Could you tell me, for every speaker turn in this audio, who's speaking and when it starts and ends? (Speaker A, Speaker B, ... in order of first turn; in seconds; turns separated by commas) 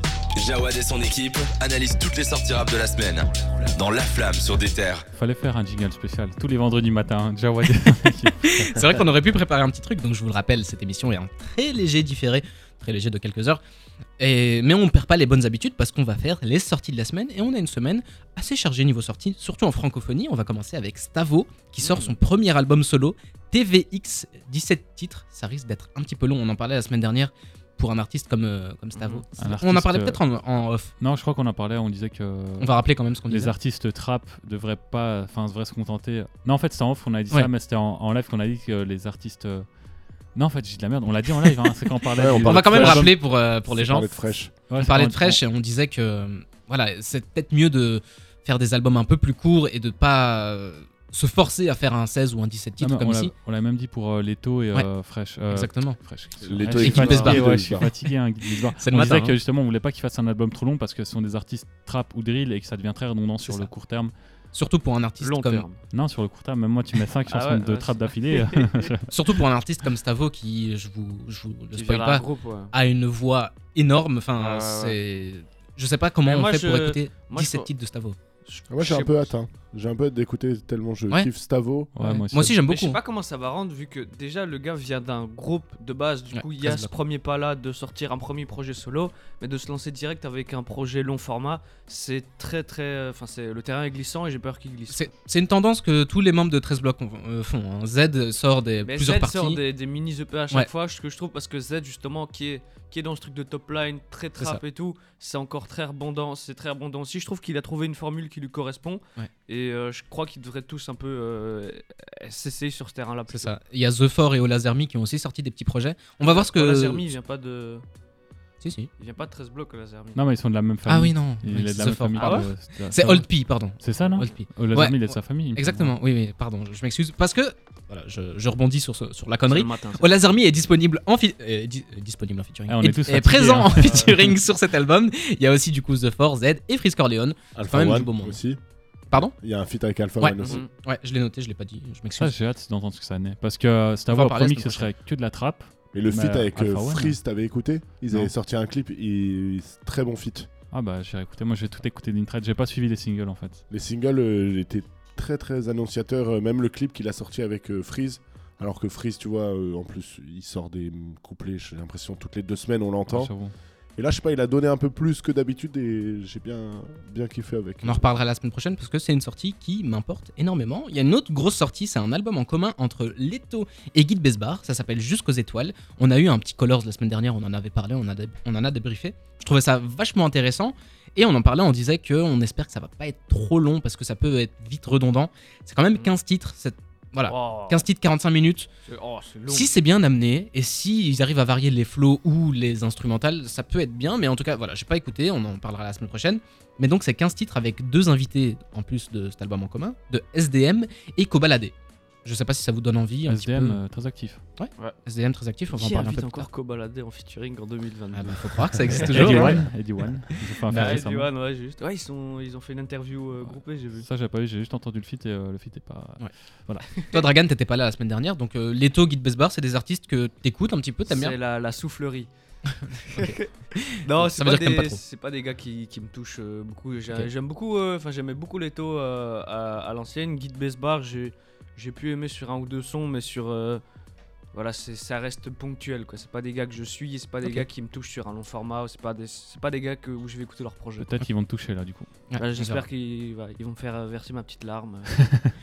Speaker A: 0.4-5.0, Speaker B: 5.1-8.7, Speaker C: 8.4-13.6, Speaker C: 14.2-30.9, Speaker D: 21.8-22.2, Speaker D: 29.0-29.3, Speaker B: 29.4-30.2, Speaker B: 31.0-39.7, Speaker C: 32.6-33.5, Speaker B: 40.4-43.2, Speaker E: 42.2-44.5, Speaker C: 42.4-44.1, Speaker B: 44.7-45.4, Speaker C: 44.8-53.3, Speaker B: 52.8-64.1, Speaker C: 55.5-56.0, Speaker E: 56.4-57.9, Speaker C: 56.8-57.5, Speaker C: 58.8-59.4, Speaker C: 63.4-63.7, Speaker C: 64.5-65.7, Speaker D: 65.2-65.8, Speaker B: 65.9-69.2, Speaker D: 67.2-68.9, Speaker C: 69.1-78.2, Speaker D: 71.7-72.7, Speaker D: 74.4-75.0, Speaker D: 76.2-77.7, Speaker D: 78.5-79.3, Speaker E: 78.7-81.9, Speaker B: 81.9-82.6, Speaker C: 82.0-83.0, Speaker D: 82.7-95.1, Speaker C: 86.3-86.9, Speaker C: 94.9-99.6, Speaker D: 98.8-113.5, Speaker C: 113.3-117.0, Speaker D: 116.2-117.8, Speaker C: 118.6-118.9, Speaker D: 119.0-120.2, Speaker B: 120.2-126.0, Speaker C: 120.8-138.4, Speaker D: 122.2-122.5, Speaker D: 129.5-130.2, Speaker B: 132.7-134.3, Speaker D: 133.7-134.2, Speaker E: 137.6-138.6, Speaker E: 139.1-140.6, Speaker C: 140.2-142.3, Speaker D: 140.4-140.7, Speaker B: 142.2-147.2, Speaker C: 144.1-144.9, Speaker E: 145.9-150.5, Speaker B: 150.7-153.6, Speaker E: 153.7-163.4, Speaker B: 163.1-163.5, Speaker E: 164.0-168.1, Speaker C: 167.8-188.7, Speaker D: 187.3-187.9, Speaker D: 188.9-189.7, Speaker C: 189.5-201.7, Speaker C: 202.2-203.8, Speaker B: 203.3-204.4, Speaker C: 204.6-206.5, Speaker D: 205.7-209.6, Speaker C: 208.1-209.7, Speaker B: 209.1-211.3, Speaker C: 210.7-211.0, Speaker D: 210.7-214.1, Speaker B: 214.0-216.8, Speaker D: 216.9-217.2, Speaker C: 217.1-221.4, Speaker D: 221.1-222.3, Speaker C: 223.1-225.0, Speaker D: 223.2-223.5, Speaker D: 224.0-233.8, Speaker D: 234.5-241.2, Speaker B: 241.0-242.1, Speaker C: 242.3-242.9, Speaker D: 242.4-245.1, Speaker B: 245.1-245.4